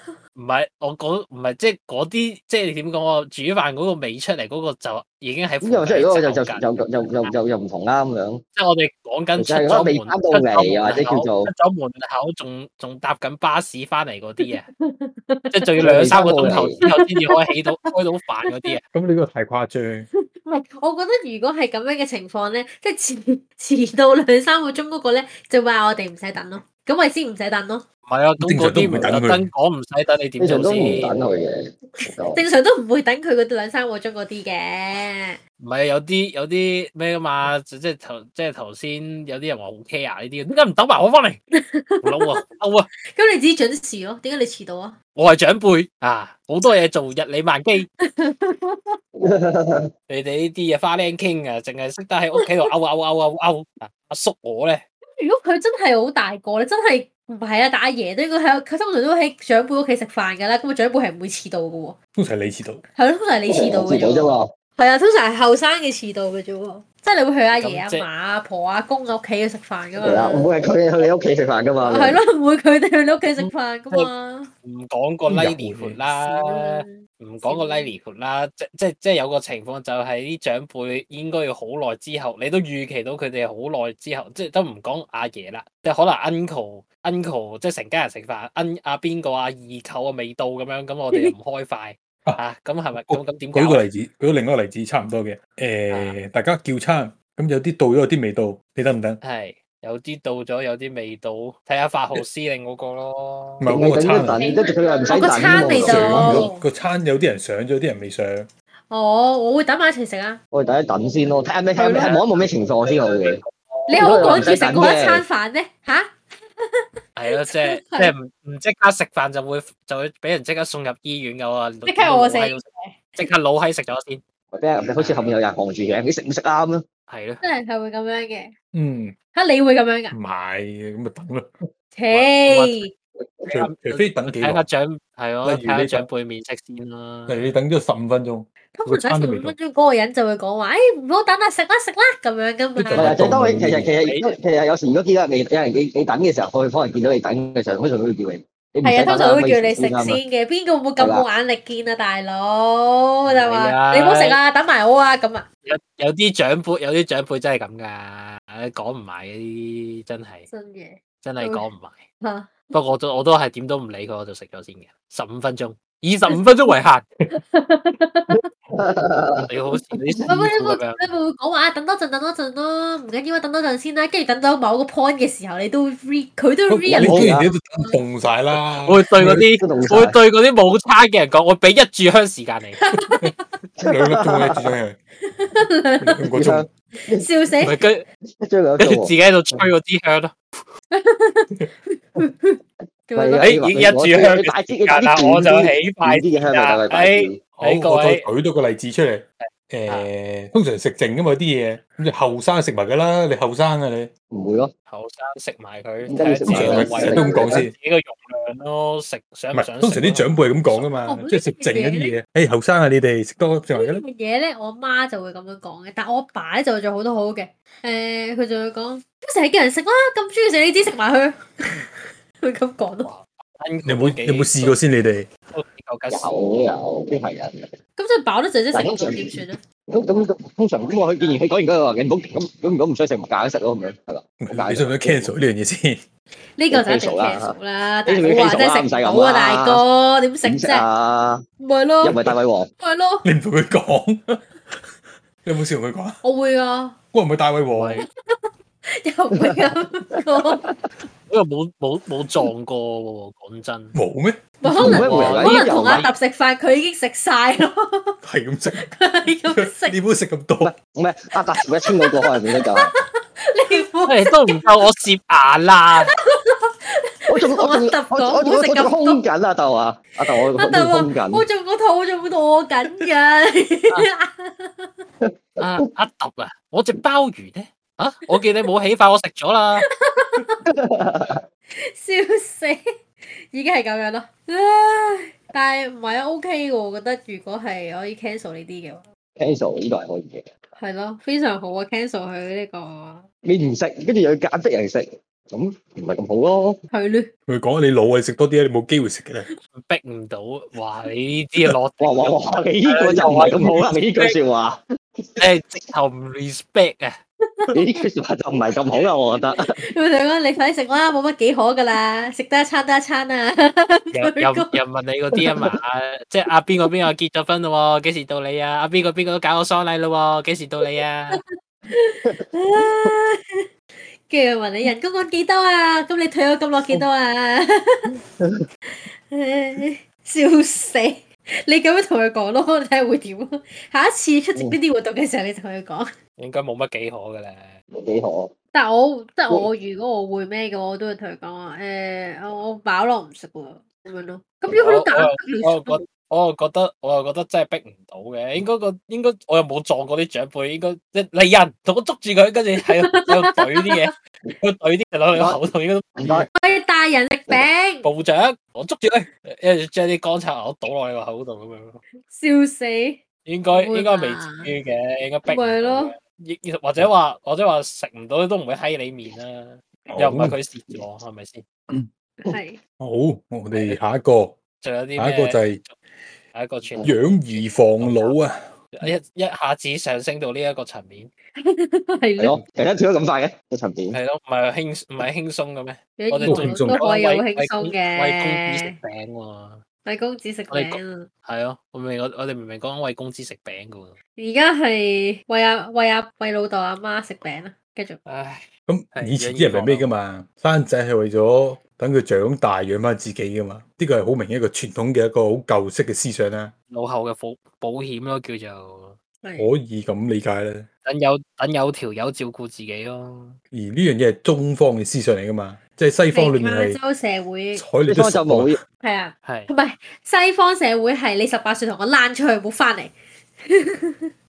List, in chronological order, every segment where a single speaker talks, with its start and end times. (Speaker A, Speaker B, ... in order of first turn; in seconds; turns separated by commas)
Speaker A: 0.3-7.3, Speaker B: 5.6-8.4, Speaker A: 8.6-14.7, Speaker B: 9.4-11.5, Speaker C: 14.4-15.8, Speaker A: 15.5-18.8, Speaker B: 15.8-16.8, Speaker C: 16.4-17.6, Speaker C: 18.5-18.7, Speaker D: 18.9-20.1, Speaker C: 20.3-27.8, Speaker A: 28.1-31.2, Speaker D: 28.4-29.5, Speaker B: 30.4-32.4, Speaker C: 32.0-35.4, Speaker A: 35.6-41.4, Speaker C: 41.5-42.4, Speaker A: 42.0-42.9, Speaker C: 43.0-44.9, Speaker A: 45.1-47.9, Speaker C: 48.0-49.0, Speaker B: 49.2-49.9, Speaker A: 50.1-54.8, Speaker C: 52.4-52.7, Speaker C: 55.2-62.0, Speaker D: 62.1-62.8, Speaker C: 62.9-70.5, Speaker B: 63.5-64.5, Speaker A: 67.6-68.1, Speaker B: 70.0-72.2, Speaker C: 71.8-74.5, Speaker A: 73.4-74.1, Speaker A: 74.6-93.8, Speaker D: 75.3-76.0, Speaker C: 76.1-77.9, Speaker D: 92.9-99.2, Speaker A: 95.9-96.2, Speaker A: 99.2-104.4, Speaker D: 103.6-104.4, Speaker B: 103.7-106.5, Speaker C: 105.0-106.7, Speaker D: 105.4-108.5, Speaker C: 108.8-110.4, Speaker B: 110.5-113.4, Speaker C: 111.8-112.1, Speaker A: 112.0-112.2, Speaker A: 113.2-114.7, Speaker C: 113.9-118.1, Speaker B: 114.0-115.2, Speaker A: 117.2-124.2, Speaker C: 121.9-123.3, Speaker B: 124.5-126.8, Speaker A: 125.0-125.4, Speaker A: 127.1-127.4, Speaker C: 127.4-128.5, Speaker D: 128.7-129.2, Speaker C: 129.3-130.2, Speaker D: 130.1-131.5, Speaker C: 131.9-132.9, Speaker A: 132.1-132.8, Speaker D: 133.5-134.7, Speaker A: 133.5-137.5, Speaker D: 135.4-136.1, Speaker D: 137.3-139.5, Speaker C: 138.7-143.1, Speaker D: 142.8-143.9, Speaker B: 142.9-150.2, Speaker A: 144.0-144.3, Speaker C: 148.8-155.4, Speaker B: 151.0-151.2, Speaker A: 153.3-154.4, Speaker A: 155.6-160.5, Speaker C: 160.5-161.6, Speaker A: 161.2-162.1, Speaker C: 162.2-162.7, Speaker A: 162.7-167.1, Speaker C: 166.3-166.7, Speaker C: 167.3-168.5, Speaker B: 168.8-170.2, Speaker A: 169.5-171.1, Speaker C: 170.3-177.2, Speaker D: 176.7-179.5, Speaker B: 177.0-177.5, Speaker A: 178.8-182.8, Speaker B: 179.5-180.2, Speaker C: 182.8-183.3, Speaker D: 182.9-185.0, Speaker B: 183.8-184.7, Speaker C: 185.2-186.2, Speaker D: 186.0-186.7, Speaker B: 186.3-187.8, Speaker C: 187.1-187.8, Speaker A: 187.6-188.0, Speaker B: 188.4-189.7, Speaker A: 188.8-190.3, Speaker C: 190.9-193.5, Speaker B: 193.2-197.4, Speaker A: 193.4-198.3, Speaker D: 197.6-204.1, Speaker A: 199.4-200.1, Speaker B: 204.3-204.7, Speaker A: 204.9-210.9, Speaker B: 206.1-207.7, Speaker D: 206.5-207.7, Speaker D: 209.5-214.0, Speaker C: 211.0-212.1, Speaker C: 213.7-223.1, Speaker A: 223.0-224.7, Speaker D: 223.8-225.3, Speaker A: 225.5-226.3, Speaker B: 226.1-227.7, Speaker C: 228.0-229.6, Speaker B: 228.7-235.3, Speaker D: 234.4-236.0, Speaker C: 236.4-240.9, Speaker B: 236.7-237.5, Speaker B: 238.1-239.8, Speaker B: 240.4-241.4, Speaker C: 241.6-243.3, Speaker B: 242.0-242.7, Speaker D: 243.2-246.2, Speaker C: 246.2-247.0, Speaker D: 247.1-248.0, Speaker A: 247.7-248.1, Speaker C: 248.4-250.6, Speaker B: 249.4-250.9, Speaker A: 251.3-253.9, Speaker D: 253.9-255.3, Speaker C: 254.6-258.2, Speaker B: 254.8-256.1, Speaker A: 254.8-256.1, Speaker D: 258.2-258.9, Speaker C: 258.8-260.0, Speaker D: 259.6-260.7, Speaker B: 260.6-262.9, Speaker C: 261.5-264.7, Speaker A: 264.1-266.1, Speaker C: 266.0-269.2, Speaker B: 267.3-271.4, Speaker C: 270.3-275.1, Speaker B: 275.2-275.6, Speaker A: 275.6-279.9, Speaker C: 279.9-280.6, Speaker B: 280.6-281.4, Speaker C: 281.7-289.1, Speaker B: 289.4-290.5, Speaker C: 290.7-293.2, Speaker B: 293.4-296.8, Speaker C: 296.9-297.3, Speaker D: 297.5-299.5, Speaker A: 299.7-304.3, Speaker B: 302.0-305.4, Speaker A: 305.4-307.2, Speaker C: 307.4-307.8, Speaker B: 307.7-309.8, Speaker C: 309.6-314.7, Speaker A: 314.1-321.4, Speaker C: 320.9-328.1, Speaker B: 322.2-323.1, Speaker B: 328.2-328.6, Speaker C: 328.9-336.1, Speaker A: 336.4-337.8, Speaker B: 338.0-338.5, Speaker C: 338.7-346.0, Speaker A: 344.7-356.1, Speaker C: 352.8-354.1, Speaker B: 355.3-355.6, Speaker B: 356.1-356.5, Speaker C: 356.5-358.1, Speaker A: 358.0-362.0, Speaker C: 362.1-363.2, Speaker A: 363.4-371.6, Speaker C: 363.7-364.7, Speaker C: 365.5-366.1, Speaker D: 370.1-370.6, Speaker C: 372.4-372.8, Speaker D: 373.0-374.6, Speaker A: 373.7-374.0, Speaker A: 374.8-375.9, Speaker D: 375.2-375.8, Speaker A: 376.5-377.2, Speaker B: 377.0-377.2, Speaker D: 377.0-379.1, Speaker A: 378.0-378.4, Speaker A: 378.9-381.3, Speaker C: 381.6-382.6, Speaker B: 382.4-384.2, Speaker A: 384.1-389.8, Speaker C: 386.2-388.9, Speaker D: 386.4-387.0, Speaker C: 390.0-391.3, Speaker A: 390.7-394.1, Speaker C: 394.4-398.2, Speaker A: 398.2-400.1, Speaker D: 398.9-406.7, Speaker A: 406.9-409.2, Speaker C: 409.4-409.7, Speaker D: 409.6-410.9, Speaker A: 411.0-413.6, Speaker D: 413.7-417.0, Speaker C: 416.3-417.8, Speaker D: 417.7-418.8, Speaker B: 418.1-418.8, Speaker C: 419.0-424.3, Speaker A: 419.4-419.7